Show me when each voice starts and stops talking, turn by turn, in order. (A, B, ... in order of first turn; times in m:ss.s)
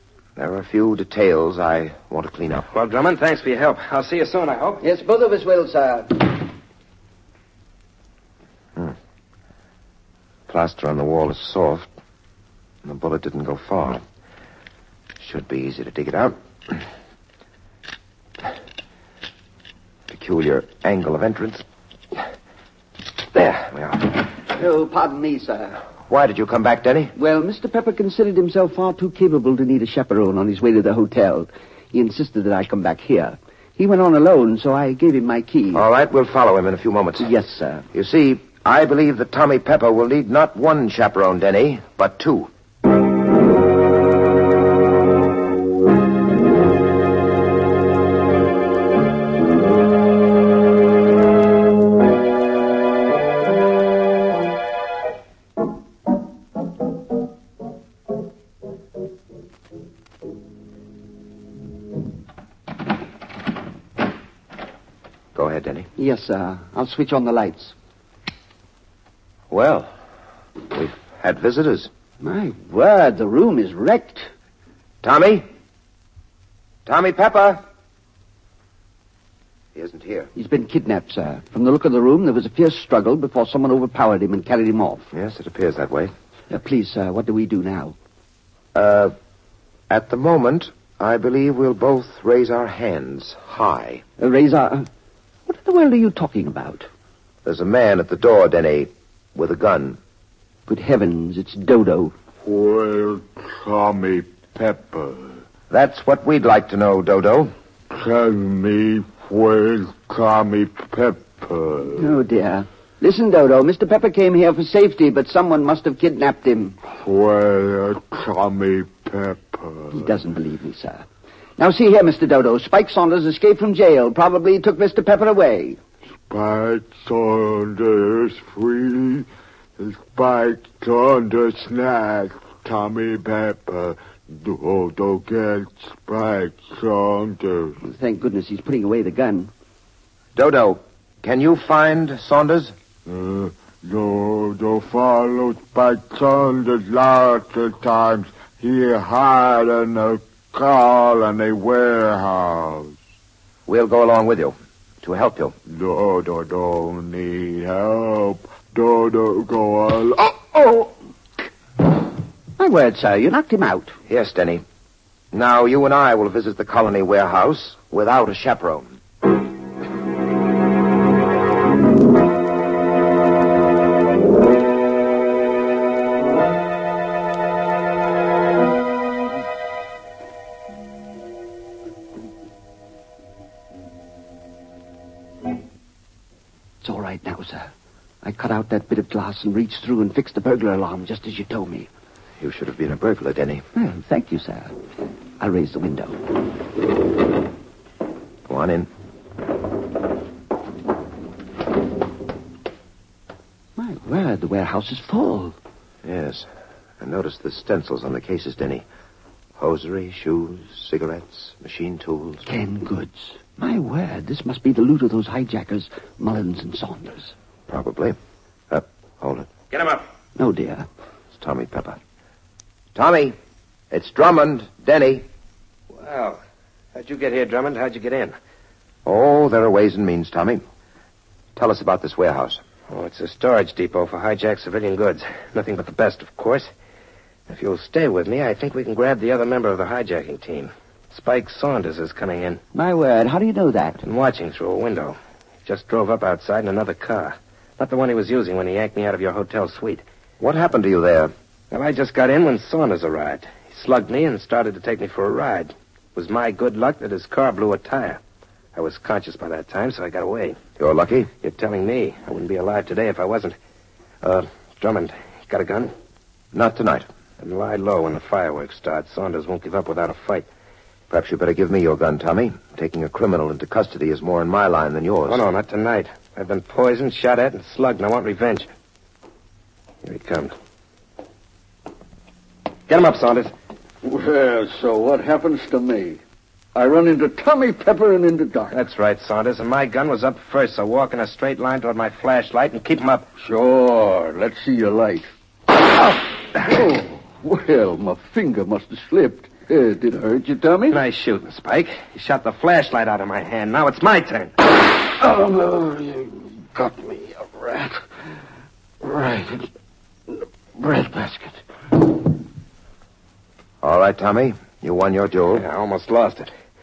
0:00.4-0:02.7 A
0:02.7-0:04.8 B
0:04.8-0:06.4 C
0:10.5-0:11.9 A
0:12.8-0:14.0 A
0:15.2-0:16.8 A
0:20.1-0:21.6 A
0:23.3-0:24.3 A
0:24.6-0:25.8 C
0:26.1-0:27.1 A
0:27.2-0:35.8 C
0:35.7-0:37.3 A
0:37.2-0:37.8 C
0:37.9-0:42.5 A
1:05.3-1:05.9 A
1:06.0-1:07.7 C
1:09.5-1:09.9 A
1:10.7-1:11.9 A
1:12.2-1:14.3 C
1:15.0-1:15.4 A
1:16.8-1:17.6 A
1:19.7-1:20.3 A
1:20.3-1:25.1 C
1:25.1-1:26.1 A
1:26.5-1:28.0 C
1:28.7-1:29.1 A
1:29.9-1:34.0 A
1:34.2-1:34.9 C
1:35.4-1:36.9 C
1:37.4-1:40.0 A
1:40.7-1:42.1 C
1:42.4-1:45.4 D
1:45.7-1:47.5 A
1:47.9-1:52.1 D
1:52.0-1:56.8 C
1:56.9-2:00.1 D
1:59.9-2:01.0 C
2:01.6-2:05.8 C
2:06.3-2:09.3 D
2:09.8-2:17.8 D
2:17.8-2:19.5 C
2:20.4-2:22.7 A
2:23.0-2:33.0 D
2:33.6-2:35.5 A
2:35.7-2:40.9 D
2:42.6-2:44.0 C
2:44.1-2:44.6 A
2:45.3-2:49.0 A
3:06.8-3:07.7 C
3:08.2-3:11.9 C
3:12.4-3:13.6 A
3:13.7-3:14.7 C
3:15.4-3:16.4 C
3:18.5-3:18.9 A
3:23.8-3:25.6 C
3:26.0-3:26.5 A
3:27.0-3:28.8 A
3:29.6-3:32.4 A
3:32.4-3:37.3 C
3:37.7-3:38.2 A
3:38.7-3:39.5 A
3:39.7-3:40.0 B
3:40.4-3:40.9 C
3:41.3-3:42.0 A
3:42.9-3:43.4 A
3:43.9-3:45.2 A
3:46.0-3:46.4 B
3:46.9-3:48.3 B
3:49.0-3:50.6 A
3:51.5-3:52.6 A
3:52.9-3:56.7 B
3:57.5-4:02.6 B
4:02.7-4:04.0 C
4:04.0-4:10.0 B
4:10.4-4:11.3 A
4:11.7-4:18.2 B
4:18.7-4:20.6 B
4:20.8-4:21.3 A
4:21.4-4:23.5 B
4:24.2-4:25.9 B
4:26.5-4:27.1 A
4:27.4-4:30.5 B
4:31.1-4:35.4 A
4:35.3-4:38.7 B
4:40.0-4:40.5 B
4:42.9-4:43.5 B
4:44.0-4:46.2 E
4:46.7-4:48.8 E
4:48.7-4:53.3 B
4:53.4-4:55.3 E
4:56.1-5:01.0 E
5:00.9-5:04.6 B
5:05.2-5:08.0 E
5:09.0-5:09.7 E
5:10.8-5:11.5 E
5:13.8-5:15.6 A
5:15.5-5:16.5 B